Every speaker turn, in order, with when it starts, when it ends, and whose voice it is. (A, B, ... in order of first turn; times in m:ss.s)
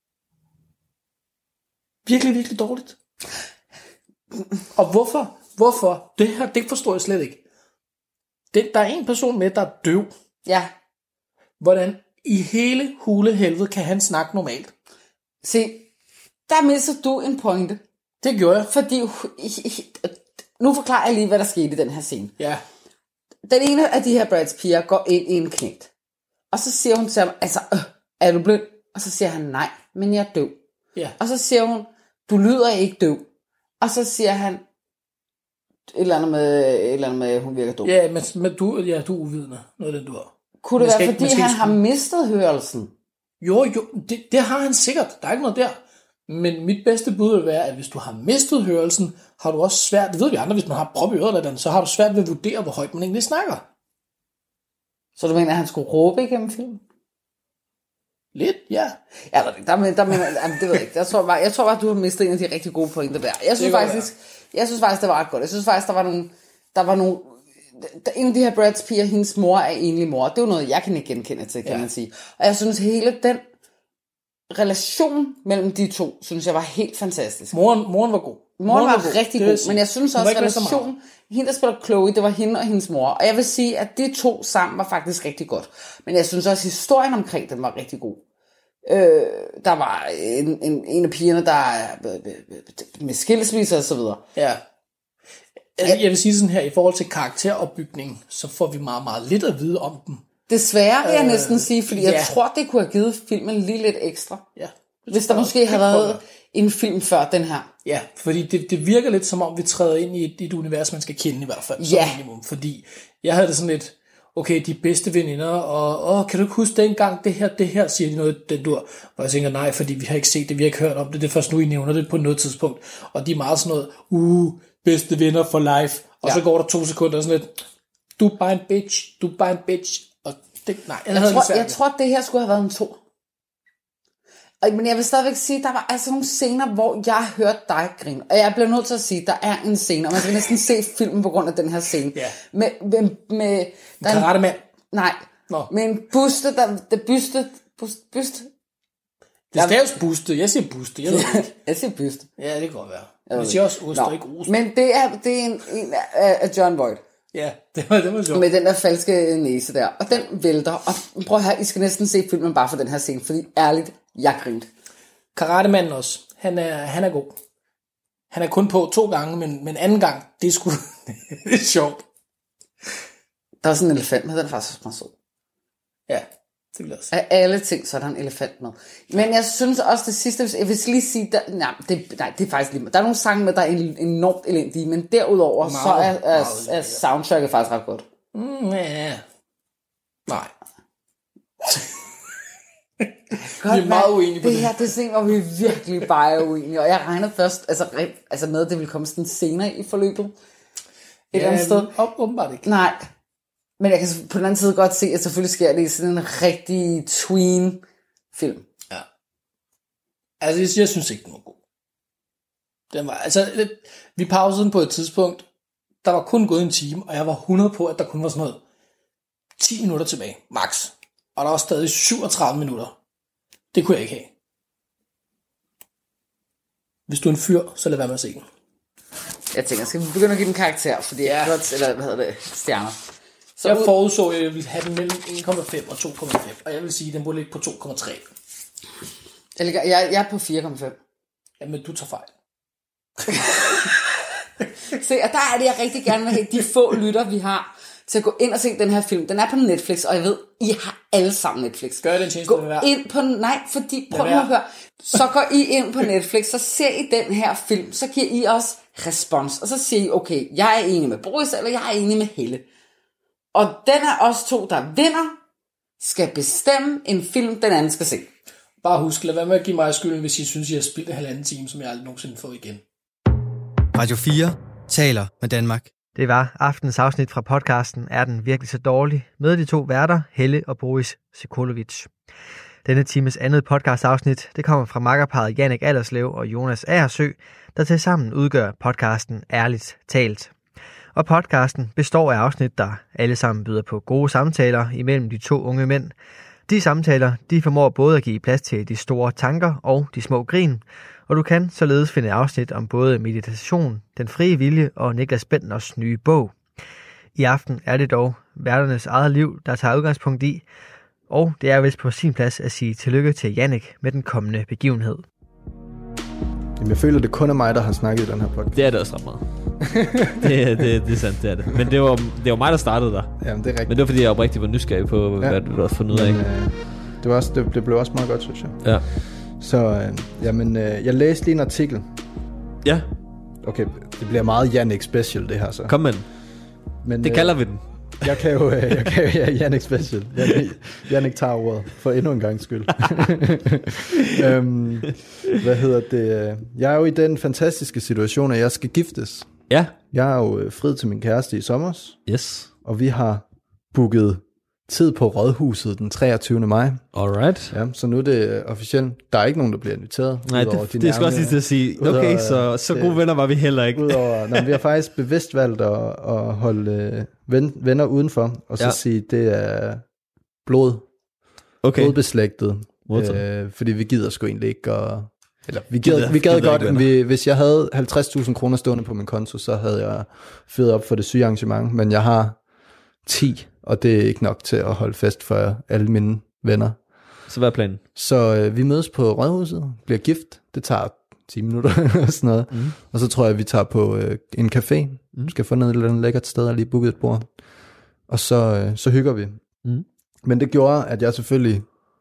0:02.1-0:03.0 A
0:04.8-0:07.4 A
0:08.5-0:10.1 A
0:10.5-0:10.7 B
0:11.6-0:14.7 A
0:15.4-0:15.9 B
0:16.5-0:17.8 B
0:18.2-0:18.7 A
0:18.7-0:22.4 B
0:23.5-0:25.9 B
0:26.5-0:30.6 B
0:31.2-0:33.3 B
0:33.8-0:34.6 B
0:35.9-0:37.9 B
0:37.8-0:41.8 A
0:40.6-0:42.9 B
0:43.4-0:53.6 A
0:55.2-0:56.8 B
0:58.4-0:59.0 A
0:59.3-1:13.4 B
1:03.6-1:04.1 A
1:14.5-1:17.5 B
1:17.5-1:20.9 A
1:18.6-1:28.2 B
1:28.9-1:34.2 B
1:34.4-1:34.6 A
1:35.8-1:40.2 A
1:40.5-1:44.4 B
1:41.0-1:42.3 A
1:44.6-1:46.2 A
1:45.1-1:47.7 B
1:47.8-2:07.6 A
1:51.8-1:52.2 B
2:08.2-2:11.8 A
2:11.1-2:13.0 B
2:14.6-2:24.3 B
2:24.0-2:24.6 A
2:24.9-2:28.5 B
2:29.5-2:31.5 A
2:29.6-2:29.8 B
2:31.1-2:32.3 B
2:32.4-2:34.6 A
2:33.3-2:37.0 B
2:37.3-2:38.5 A
2:38.3-2:44.7 B
2:45.4-2:47.3 A
2:48.3-2:52.0 A
2:53.6-2:55.1 B
2:56.1-2:57.1 A
2:57.1-3:08.0 B
3:05.6-3:07.0 A
3:08.3-3:09.2 A
3:10.3-3:10.5 A
3:11.6-3:12.0 A
3:13.4-3:20.3 B
3:13.6-3:15.3 A
3:21.3-3:22.7 A
3:21.3-3:21.9 B
3:22.6-3:23.1 B
3:23.8-3:28.6 B
3:30.4-3:31.6 A
3:32.9-3:35.4 A
3:36.0-3:38.6 A
3:39.6-3:43.0 A
3:43.7-3:44.3 A
3:47.1-3:48.4 A
3:49.5-3:53.0 B
3:51.2-3:51.6 A
3:53.6-3:53.9 B
3:53.6-3:58.2 A
3:59.6-4:01.0 B
4:01.6-4:02.3 A
4:03.3-4:03.7 A
4:04.9-4:22.6 B
4:12.0-4:12.9 A
4:14.1-4:14.5 A
4:23.5-4:25.4 B
4:26.0-4:28.3 B
4:28.8-4:32.8 A
4:33.9-4:35.9 C
4:36.2-4:42.1 D
4:42.8-4:50.5 D
4:51.2-4:56.2 D
4:56.7-5:06.6 D
5:07.4-5:10.6 D
5:11.3-5:15.2 D
5:16.8-5:18.8 E
5:18.7-5:19.4 F
5:19.8-5:20.5 E
5:20.4-5:26.4 F
5:23.4-5:23.9 E
5:25.4-5:32.1 E
5:33.6-5:36.0 E
5:35.9-5:36.3 F
5:37.0-5:52.3 E
5:37.2-5:38.4 F
5:49.7-5:50.0 F
5:52.3-5:52.7 F
5:52.8-5:57.1 E
5:57.1-5:57.8 F
5:57.7-6:10.0 E
6:00.5-6:04.7 F
6:10.6-6:11.1 E
6:11.8-6:12.3 F
6:11.9-6:22.6 E
6:13.1-6:13.4 F
6:16.0-6:17.0 F
6:23.2-6:27.0 E
6:27.5-6:28.0 F
6:28.2-6:37.5 E
6:38.3-6:39.6 E
6:40.4-6:41.9 E